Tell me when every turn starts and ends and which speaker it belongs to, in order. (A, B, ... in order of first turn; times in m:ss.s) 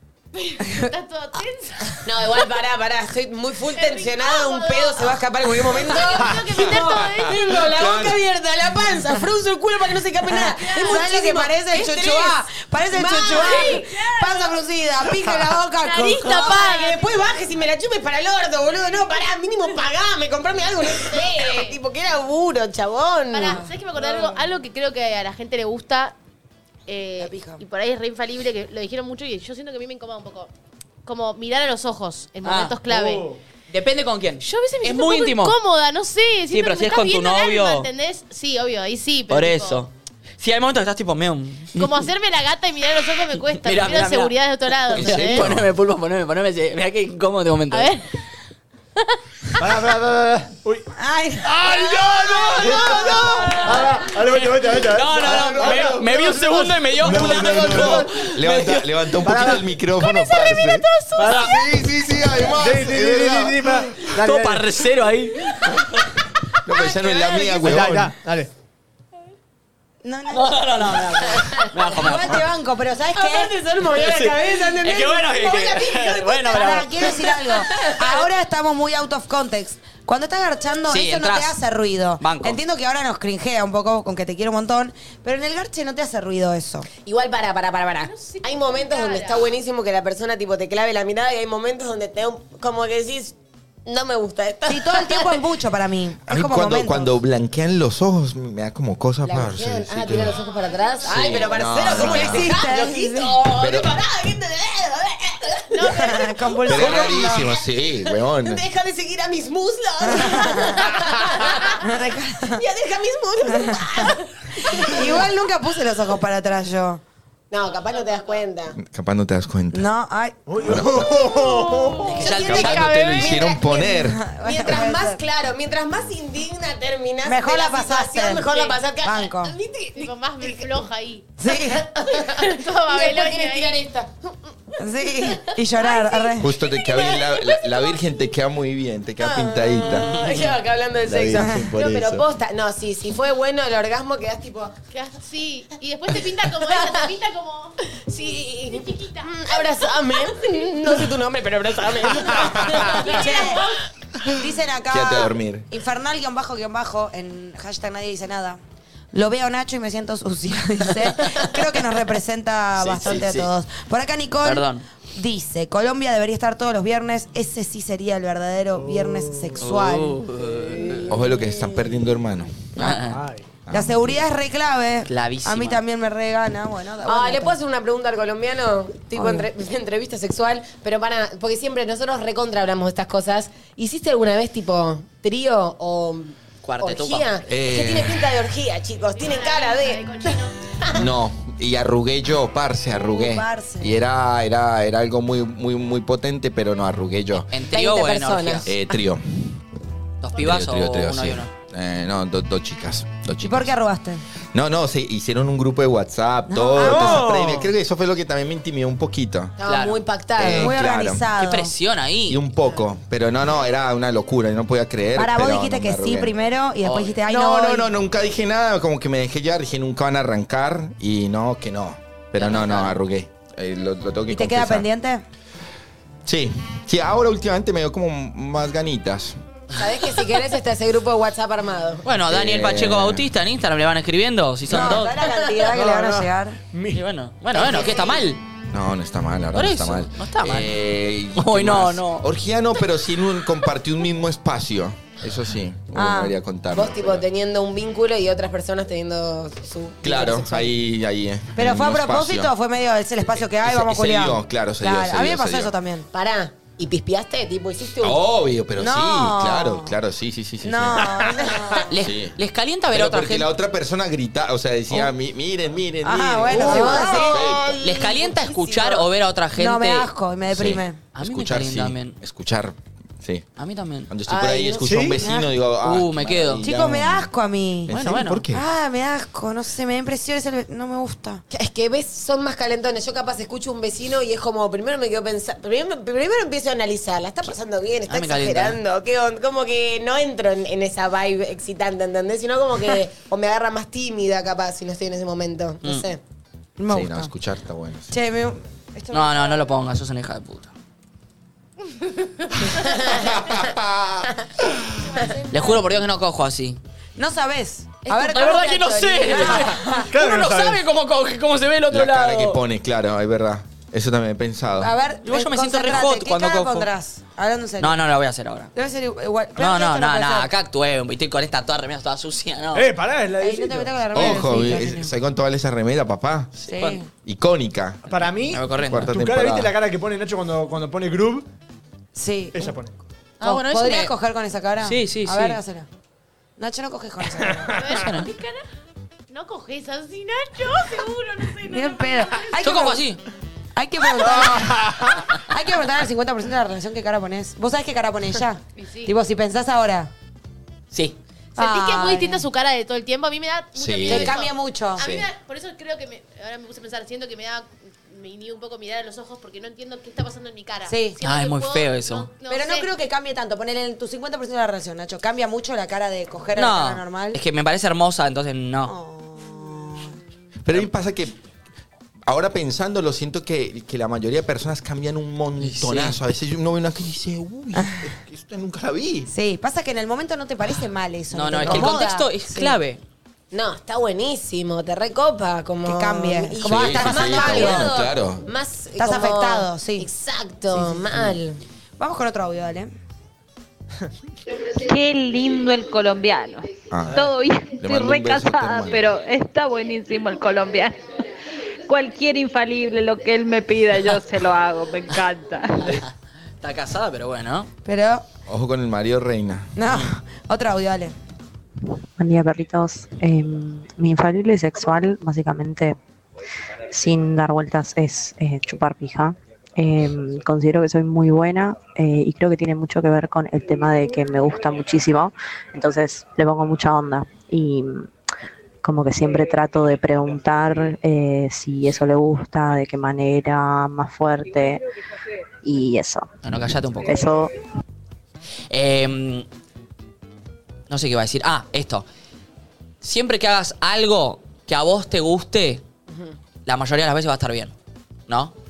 0:00.4-0:02.4 A
0:00.6-0:00.9 B
0:02.0-0:12.4 C
0:03.7-0:07.5 A
0:06.8-0:08.2 D
0:10.2-0:16.5 B
0:10.6-0:11.0 A
0:12.9-0:14.0 C
0:13.2-0:14.3 A
0:15.8-0:17.2 A
0:16.0-0:23.6 C
0:20.8-0:21.8 A
0:23.3-0:26.2 A
0:23.4-0:23.7 B
0:26.9-0:30.5 A
0:27.2-0:27.6 B
0:31.0-0:33.3 A
0:32.4-0:32.8 E
0:32.9-0:33.4 F
0:33.7-0:35.6 E
0:34.4-0:39.8 A
0:36.5-0:37.9 E
0:39.3-0:42.0 E
0:41.8-0:45.5 A
0:43.6-0:44.3 E
0:44.9-0:45.7 D
0:44.9-0:47.9 E
0:47.7-0:48.1 A
0:49.6-0:50.9 F
0:51.0-0:51.6 B
0:51.5-0:58.3 F
0:51.8-0:58.9 E
0:55.2-0:56.2 D
0:57.0-1:03.9 D
0:59.2-0:59.7 F
1:00.0-1:01.6 A
1:01.2-1:01.8 F
1:02.5-1:04.7 F
1:04.1-1:06.1 E
1:06.6-1:08.2 D
1:07.6-1:08.5 F
1:10.0-1:13.5 B
1:10.3-1:12.5 E
1:13.1-1:18.1 C
1:14.0-1:17.3 E
1:16.5-1:26.9 B
1:20.9-1:21.6 E
1:22.2-1:22.6 E
1:27.0-1:35.4 C
1:28.0-1:29.6 A
1:34.7-1:37.1 B
1:36.3-1:40.4 D
1:39.2-1:51.9 C
1:40.4-1:41.5 A
1:41.1-1:42.5 D
1:41.8-1:43.5 B
1:43.5-1:44.0 D
1:45.7-1:46.6 A
1:45.8-1:47.5 B
1:46.7-1:48.6 D
1:50.0-1:50.9 B
1:51.7-1:52.6 B
1:52.5-1:55.2 C
1:53.5-1:54.1 B
1:54.7-1:57.0 B
1:57.5-1:58.8 C
1:57.9-1:58.4 A
1:58.8-1:59.9 D
1:59.7-2:00.4 B
2:00.5-2:02.1 F
2:00.6-2:01.4 D
2:01.3-2:10.7 C
2:02.2-2:03.2 E
2:02.2-2:04.3 D
2:03.8-2:05.2 B
2:07.2-2:08.5 B
2:08.5-2:08.8 A
2:09.0-2:09.5 B
2:10.0-2:11.3 A
2:11.4-2:11.9 B
2:11.6-2:14.4 C
2:12.2-2:13.8 A
2:14.8-2:16.5 B
2:15.8-2:17.7 C
2:16.0-2:16.3 A
2:16.4-2:20.3 D
2:19.2-2:24.8 C
2:20.1-2:20.4 E
2:21.0-2:22.2 D
2:21.3-2:21.7 B
2:24.9-2:31.0 A
2:26.5-2:27.1 C
2:28.1-2:33.6 C
2:32.3-2:33.8 A
2:32.9-2:33.7 B
2:34.3-2:38.6 B
2:34.9-2:35.7 D
2:39.1-2:50.2 B
2:41.2-2:41.5 C
2:42.8-2:43.5 D
2:44.4-2:44.8 E
2:48.8-2:49.6 F
2:49.6-2:51.1 E
2:50.5-2:51.0 F
2:50.8-2:51.8 C
2:51.1-2:52.7 D
2:52.8-2:53.2 E
2:52.8-2:53.0 B
2:53.0-2:53.5 F
2:53.7-2:54.2 D
2:53.7-2:57.6 B
2:55.1-2:55.8 E
2:57.0-3:11.1 C
2:59.1-2:59.5 B
3:06.6-3:07.3 E
3:07.5-3:08.3 D
3:09.2-3:10.8 A
3:11.0-3:17.5 D
3:12.9-3:13.9 B
3:17.5-3:18.7 E
3:17.7-3:19.0 C
3:18.7-3:19.4 D
3:20.2-3:21.5 E
3:20.4-3:23.7 D
3:23.4-3:24.2 B
3:24.5-3:29.6 D
3:26.5-3:27.3 B
3:26.8-3:27.7 F
3:29.6-3:30.8 C
3:29.6-3:30.0 E
3:30.4-3:31.2 D
3:30.4-3:31.7 B
3:31.4-3:32.4 E
3:32.3-3:36.3 D
3:35.2-3:37.9 B
3:36.8-3:37.2 E
3:37.3-3:44.9 D
3:42.4-3:43.0 E
3:44.3-3:45.2 B
3:46.3-3:49.4 D
3:49.7-3:52.0 C
3:52.0-3:55.2 E
3:52.3-3:53.3 D
3:54.7-3:56.6 B
3:55.1-3:55.7 C
3:55.7-3:57.0 F
3:56.9-3:58.4 E
3:57.5-3:58.2 C
3:58.7-4:07.2 D
3:59.6-4:00.7 E
4:01.4-4:02.3 E
4:05.9-4:06.4 B
4:06.7-4:10.8 C
4:10.0-4:12.5 D
4:11.6-4:16.1 B
4:13.6-4:15.7 D
4:16.1-4:18.2 C
4:18.0-4:21.4 D
4:18.8-4:20.0 B
4:20.6-4:21.9 B
4:21.9-4:23.5 E
4:22.0-4:22.4 D
4:22.9-4:27.8 D
4:26.0-4:27.6 B
4:26.5-4:29.1 C
4:27.8-4:30.1 E
4:29.6-4:31.0 B
4:30.5-4:33.5 D
4:31.2-4:32.2 E
4:33.6-4:34.1 E
4:34.1-4:37.3 D
4:34.3-4:35.0 C
4:34.8-4:35.2 F
4:35.2-4:35.5 B
4:35.8-4:36.6 E
4:36.6-4:37.9 B
4:37.9-4:38.6 D
4:37.9-4:38.4 E
4:38.5-4:41.4 B
4:41.5-4:56.2 C
4:48.1-4:48.8 E
4:56.8-4:57.3 B
4:56.9-4:58.1 D
4:58.1-4:59.7 B
4:59.1-5:00.7 E
5:02.8-5:03.5 C
5:03.1-5:04.3 D
5:05.5-5:06.8 E
5:07.2-5:10.1 B
5:08.1-5:09.8 C
5:08.2-5:12.6 E
5:10.0-5:10.8 F
5:11.9-5:14.9 D
5:14.8-5:18.0 B
5:15.2-5:16.9 E
5:17.8-5:18.7 E
5:18.7-5:20.5 B
5:19.6-5:22.9 E
5:22.7-5:24.4 F
5:23.4-5:25.1 B
5:24.1-5:28.0 D
5:26.6-5:27.1 B
5:26.7-5:27.0 E
5:28.1-5:31.5 F
5:28.5-5:29.1 E
5:28.8-5:29.7 D
5:32.1-5:32.7 B
5:32.5-5:33.0 F
5:33.4-5:35.9 B
5:33.4-5:34.0 E
5:33.4-5:34.0 A
5:34.8-5:35.6 E
5:36.6-5:37.8 B
5:37.5-5:37.8 F
5:37.8-5:38.6 A
5:37.9-5:38.3 E
5:39.3-5:42.7 A
5:41.6-5:43.0 B
5:42.6-5:43.2 E
5:43.8-5:50.1 B
5:48.8-5:49.1 A
5:50.9-5:51.2 E
5:51.6-6:02.9 A
5:51.6-5:52.5 B
5:53.8-5:54.4 D
5:54.1-5:55.1 B
5:55.0-5:55.3 D
6:00.9-6:01.2 B
6:01.2-6:02.3 E
6:02.5-6:07.4 B
6:06.6-6:08.9 E
6:08.8-6:10.2 B
6:10.6-6:11.4 D
6:12.3-6:19.3 D
6:15.6-6:16.2 E
6:19.3-6:22.8 B
6:21.3-6:23.0 E
6:23.5-6:31.6 C
6:25.8-6:28.0 B
6:26.6-6:28.4 D
6:29.0-6:30.1 B
6:30.7-6:31.1 B
6:32.0-6:32.9 B
6:34.8-6:41.0 G
6:36.9-6:39.1 D
6:41.9-6:46.0 G
6:46.6-6:47.7 E
6:47.8-6:48.3 B
6:48.5-6:49.7 D
6:49.8-6:51.1 B
6:52.2-6:56.0 H
6:56.9-7:08.1 H
7:08.8-7:14.8 H
7:15.6-7:16.3 H
7:16.4-7:17.2 E
7:17.0-7:17.5 H
7:18.7-7:19.5 E
7:20.9-7:22.0 E
7:23.0-7:25.8 E
7:26.1-7:26.4 C
7:26.7-7:27.7 E
7:28.3-7:28.5 E